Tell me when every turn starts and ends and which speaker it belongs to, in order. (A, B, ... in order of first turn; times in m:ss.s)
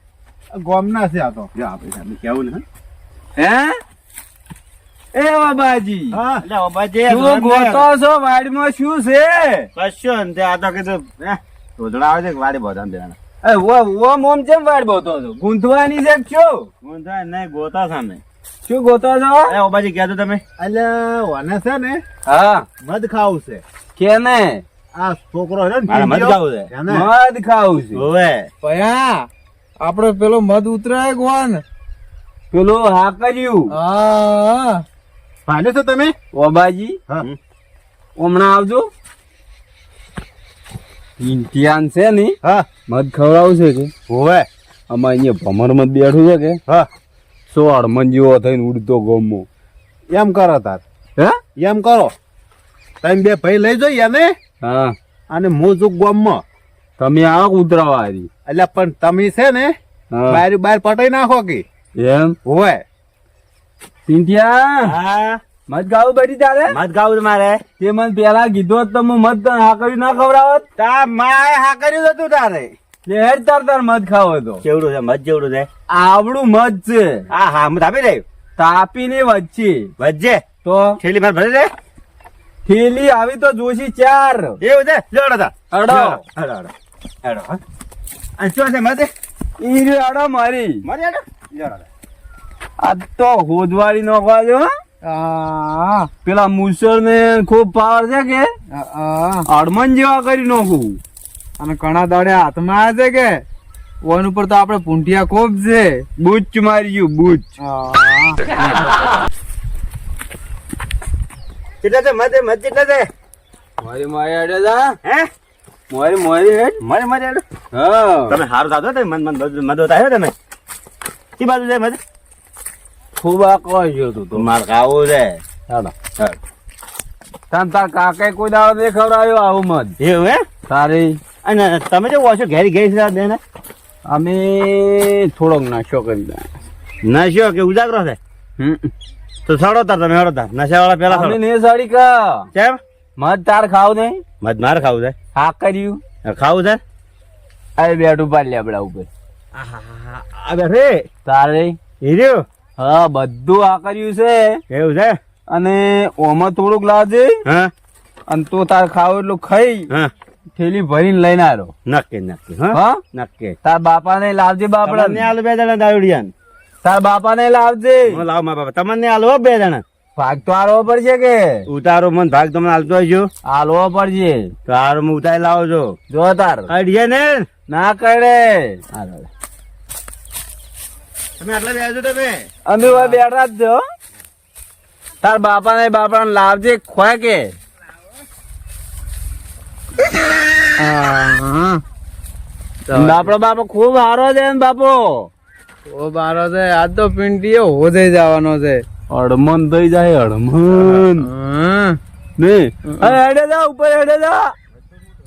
0:00.5-0:01.5 A
0:01.5-0:02.6 B
0:03.4-0:03.8 C
0:05.1-0:06.2 C
0:06.2-0:06.4 A
0:06.4-0:07.8 B
0:07.1-0:09.7 C
0:09.7-0:13.2 B
0:13.4-0:16.7 C
0:16.8-0:18.2 B
0:18.6-0:19.5 C
0:19.5-0:20.4 B
0:20.6-0:22.0 A
0:22.3-0:22.6 C
0:22.9-0:23.6 A
0:24.0-0:24.6 C
0:24.9-0:27.0 A
0:25.8-0:26.7 B
0:26.9-0:28.0 C
0:27.9-0:28.5 B
0:28.6-0:29.2 D
0:29.8-0:31.6 D
0:32.5-0:33.7 C
0:33.7-0:34.8 D
0:35.5-0:36.1 A
0:36.3-0:37.0 C
0:38.2-0:38.9 C
0:41.2-0:42.4 C
0:42.9-0:43.9 C
0:44.1-0:44.5 B
0:44.9-0:46.6 C
0:47.5-0:49.4 C
0:50.1-0:50.8 A
0:51.6-0:52.1 A
0:53.0-0:54.3 A
0:54.6-0:54.9 C
0:55.3-0:56.4 A
0:57.0-0:58.3 C
0:58.4-0:59.7 A
1:00.1-1:00.4 C
1:00.3-1:01.6 A
1:02.0-1:02.4 C
1:02.4-1:02.8 A
1:04.1-1:04.9 C
1:04.9-1:05.4 B
1:05.7-1:06.7 C
1:06.7-1:07.6 B
1:07.8-1:10.6 C
1:10.8-1:12.7 B
1:13.0-1:14.6 C
1:14.6-1:15.7 B
1:15.9-1:17.2 C
1:17.3-1:18.2 B
1:18.6-1:19.9 C
1:20.0-1:20.4 B
1:20.6-1:21.0 C
1:21.0-1:21.7 B
1:22.6-1:24.6 C
1:24.6-1:26.7 B
1:25.7-1:26.2 C
1:27.2-1:27.6 B
1:28.4-1:29.1 B
1:29.6-1:30.8 C
1:30.8-1:31.8 B
1:32.8-1:34.7 C
1:35.0-1:36.1 D
1:36.2-1:38.5 C
1:38.7-1:39.5 D
1:39.5-1:41.0 C
1:41.6-1:43.4 D
1:44.0-1:46.0 D
1:46.2-1:47.5 C
1:47.6-1:48.4 D
1:51.8-1:53.1 B
1:53.8-1:54.9 C
1:55.9-1:56.8 C
1:56.8-1:57.4 B
1:57.7-1:58.4 C
1:58.3-2:00.3 B
2:01.4-2:02.0 B
2:03.2-2:04.4 C
2:04.4-2:05.4 B
2:07.5-2:09.9 C
2:10.0-2:10.4 B
2:10.7-2:11.2 C
2:11.4-2:13.4 B
2:14.1-2:16.5 C
2:17.0-2:18.2 B
2:18.6-2:18.9 C
2:19.5-2:21.4 B
2:21.1-2:22.5 C
2:22.5-2:22.8 B
2:23.2-2:24.2 C
2:24.4-2:25.1 B
2:25.3-2:26.0 C
2:26.2-2:26.8 B
2:27.8-2:29.1 C
2:29.5-2:31.0 B
2:31.2-2:31.8 C
2:32.0-2:32.4 B
2:32.8-2:34.6 C
2:34.7-2:35.2 B
2:35.5-2:37.4 C
2:37.4-2:37.7 B
2:38.3-2:39.9 C
2:40.5-2:41.7 C
2:41.9-2:43.5 B
2:42.7-2:43.0 C
2:43.6-2:45.3 C
2:44.8-2:46.3 B
2:46.8-2:48.2 C
2:48.1-2:49.8 B
2:50.2-2:51.6 C
2:51.7-2:53.3 B
2:53.5-2:54.5 C
2:54.7-2:55.9 B
2:56.1-2:56.7 C
2:56.7-2:57.5 B
2:57.7-2:59.2 C
3:01.4-3:03.1 B
3:02.7-3:03.8 C
3:05.2-3:07.5 C
3:10.8-3:11.8 D
3:12.9-3:13.2 D
3:12.9-3:15.3 C
3:15.9-3:18.8 D
3:19.1-3:21.3 C
3:21.2-3:22.0 D
3:22.4-3:24.5 C